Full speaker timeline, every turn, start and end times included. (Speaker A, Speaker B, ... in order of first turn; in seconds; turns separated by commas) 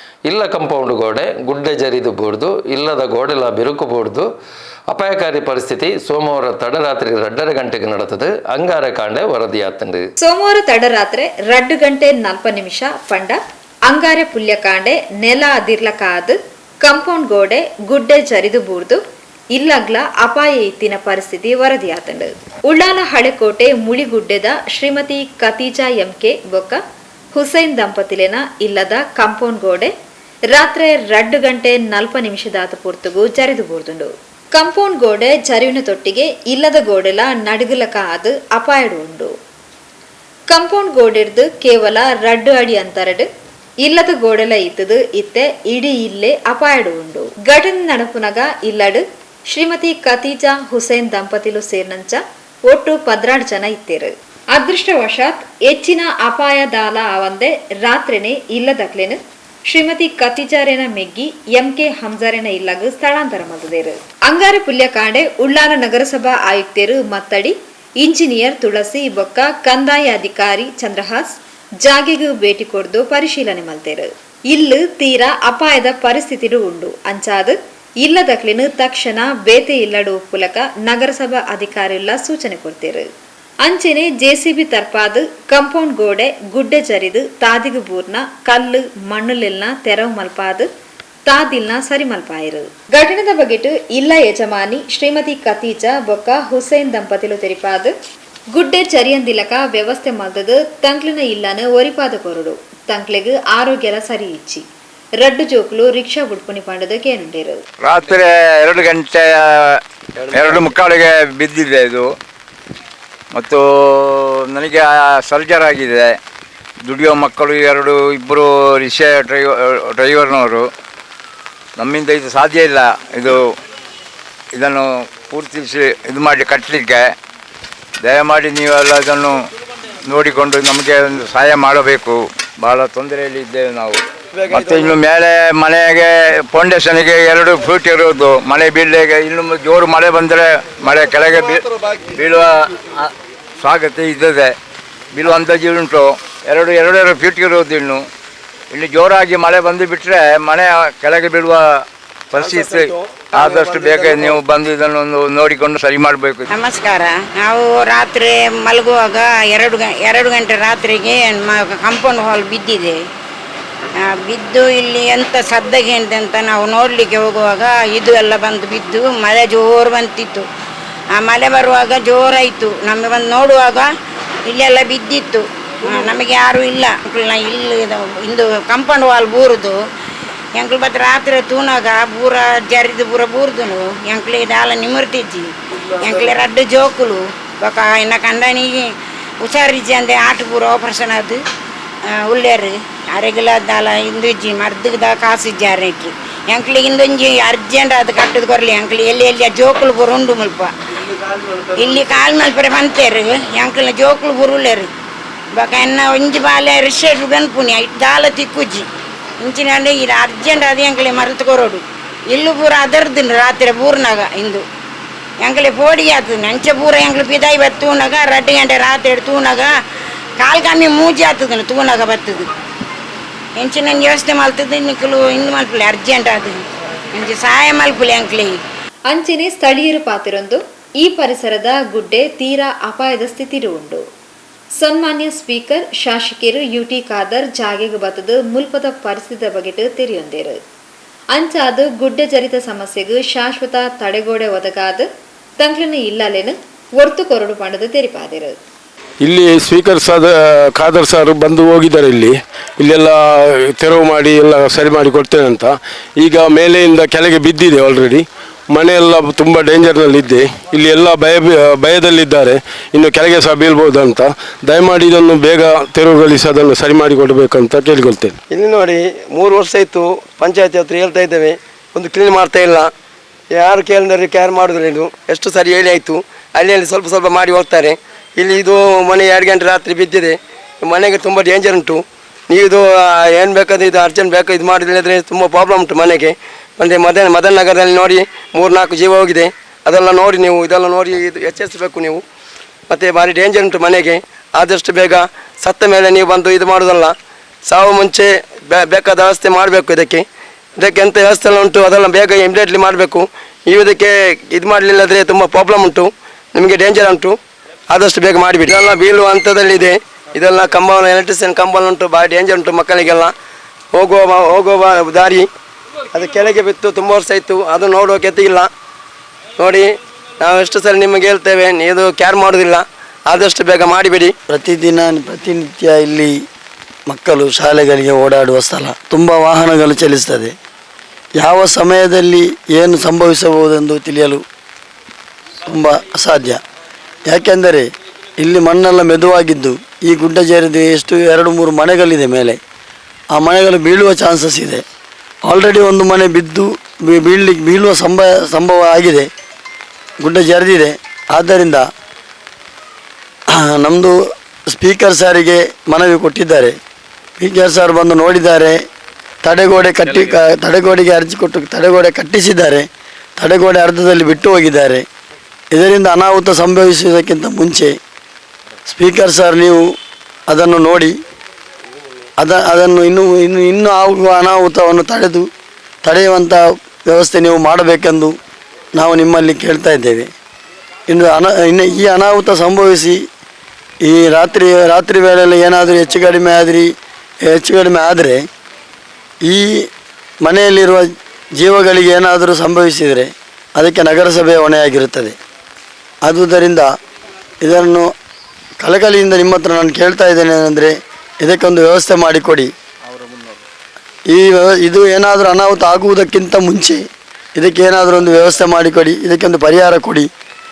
Speaker A: 0.3-4.3, Speaker A: 4.9-10.1, Speaker B: 10.2-19.0, Speaker B: 19.5-26.8, Speaker B: 27.3-29.9, Speaker B: 30.5-39.3, Speaker B: 40.5-43.3, Speaker B: 43.8-83.1, Speaker B: 83.6-90.7, Speaker B: 91.2-97.9, Speaker B: 98.5-104.6, Speaker B: 105.2-107.6, Speaker C: 107.8-109.8, Speaker D: 110.2-110.7, Speaker C: 110.3-112.1, Speaker C: 113.3-116.2, Speaker C: 116.8-120.7, Speaker C: 121.8-123.5, Speaker C: 124.5-127.1, Speaker C: 128.0-129.4, Speaker C: 130.0-144.6, Speaker D: 134.3-135.0, Speaker C: 145.1-148.0, Speaker C: 148.7-156.4, Speaker D: 152.3-154.4, Speaker E: 156.5-163.0, Speaker E: 164.2-170.4, Speaker E: 171.1-173.9, Speaker E: 174.5-179.8, Speaker E: 180.6-188.8, Speaker D: 186.0-186.3, Speaker E: 189.4-191.4, Speaker E: 192.3-200.7, Speaker E: 201.6-204.9, Speaker E: 205.6-208.8, Speaker E: 209.4-214.6, Speaker E: 215.4-219.7, Speaker E: 220.4-222.5, Speaker E: 223.6-226.6, Speaker E: 227.1-228.6, Speaker B: 229.1-234.0, Speaker B: 234.8-240.6, Speaker B: 241.3-245.1, Speaker B: 245.6-248.6, Speaker F: 249.2-268.4, Speaker D: 268.5-272.9, Speaker D: 273.5-292.2, Speaker D: 292.9-300.2, Speaker D: 300.8-307.4, Speaker D: 307.9-313.3, Speaker D: 313.9-315.5, Speaker D: 316.1-318.7, Speaker D: 319.6-324.3, Speaker G: 324.5-326.3, Speaker G: 327.1-330.5, Speaker G: 331.4-334.4, Speaker G: 335.6-336.6, Speaker G: 337.3-337.9, Speaker G: 338.4-342.6, Speaker G: 343.3-344.8, Speaker G: 345.4-349.3, Speaker G: 350.2-351.9, Speaker G: 353.5-356.8, Speaker G: 357.4-358.8, Speaker G: 359.4-362.9, Speaker G: 363.4-365.0, Speaker G: 365.7-368.0, Speaker G: 368.9-369.9, Speaker G: 370.5-371.1, Speaker G: 372.4-375.5, Speaker G: 376.0-378.4, Speaker G: 378.9-380.3, Speaker G: 381.1-383.2, Speaker G: 384.0-386.9, Speaker G: 387.5-388.4, Speaker G: 389.4-389.9, Speaker G: 390.4-395.4, Speaker G: 396.2-396.9, Speaker G: 397.6-398.1, Speaker G: 398.8-402.7, Speaker G: 404.3-407.0, Speaker G: 407.6-410.3